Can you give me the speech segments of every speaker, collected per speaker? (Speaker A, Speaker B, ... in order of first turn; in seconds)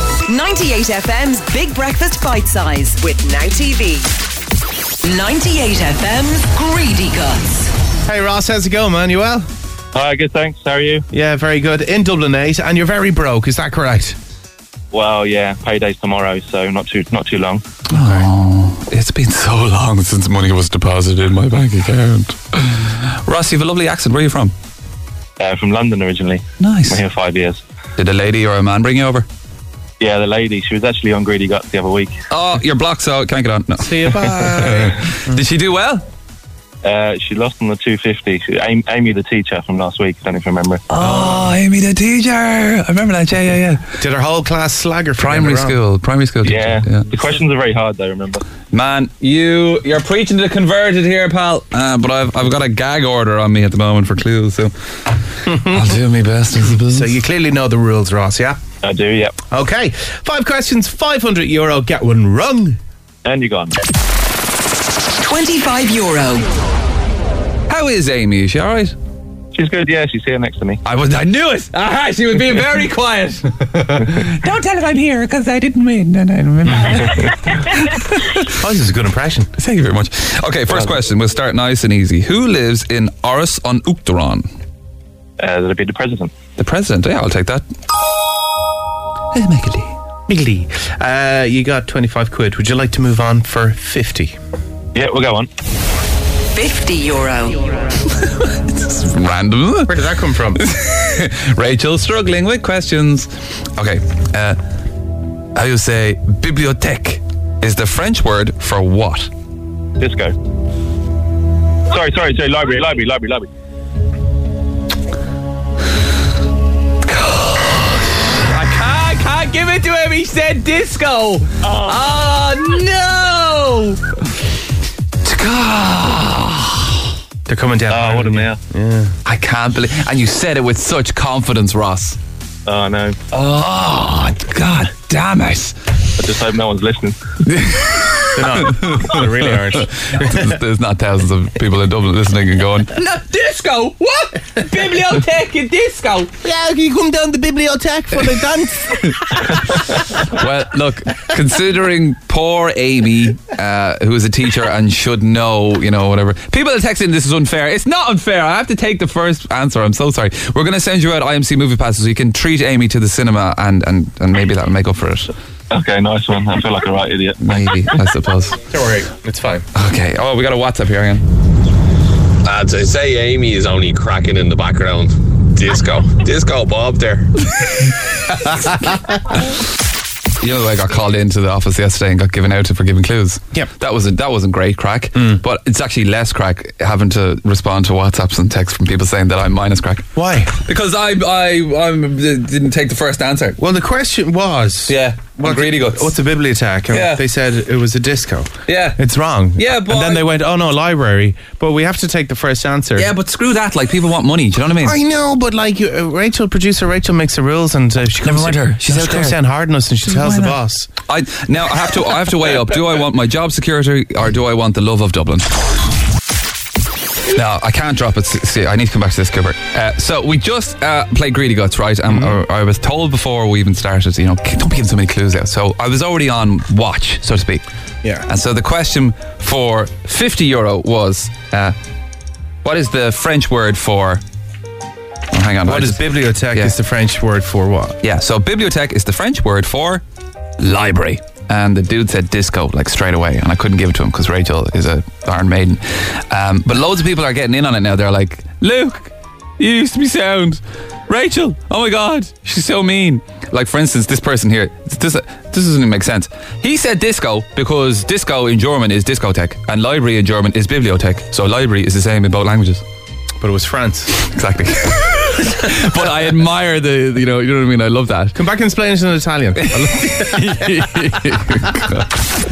Speaker A: 0.2-4.1, 5.0-7.7, 65.2-66.5, 96.5-97.7
Speaker B: 8.1-9.5, 11.1-14.2, 17.9-18.3, 33.8-34.9, 41.0-41.5, 44.0-45.8, 55.5-55.8, 56.8-58.6, 59.5-62.8, 78.5-79.5, 90.3-94.3, 99.9-100.7, 127.5-129.1, 138.3-140.5, 146.4-149.5, 168.7-169.7, 190.1-190.6, 193.6-203.1, 204.8-210.9, 222.1-222.3, 235.6-238.0, 263.4-264.2, 268.3-270.7
Speaker C: 9.9-11.0, 14.9-17.6, 25.4-27.6, 30.0-32.2, 36.8-40.8, 46.4-48.5, 58.8-59.4, 63.2-63.8, 69.5-70.8, 85.4-86.4, 94.9-95.5, 110.0-110.3, 111.9-113.5, 121.6-122.0, 127.9-128.6, 132.7-133.2, 136.2-137.2, 165.7-167.4
Speaker D: 17.9-24.5, 26.6-27.0, 28.0-29.2, 32.3-36.0, 40.9-43.8, 45.2-47.1, 48.7-54.7, 55.5-57.1, 67.7-69.0, 70.8-78.5, 79.6-84.5, 86.6-87.6, 89.3-89.9, 98.7-100.0, 100.5-104.6, 105.5-109.3, 117.1-124.0, 125.2-127.0, 129.2-132.2, 133.3-135.7, 137.5-146.3, 149.0-165.3, 167.4-168.6, 169.7-171.2, 180.4-190.0, 190.6-193.6, 194.9-196.2, 196.9-197.2, 198.7-199.0, 199.6-200.3, 203.0-205.0, 208.2-209.4, 210.1-215.5, 217.3-227.6, 228.2-231.7, 232.6-234.2, 235.3-236.7, 238.0-240.0, 240.6-262.8, 264.2-268.4, 269.6-272.2
Speaker E: 172.4-177.4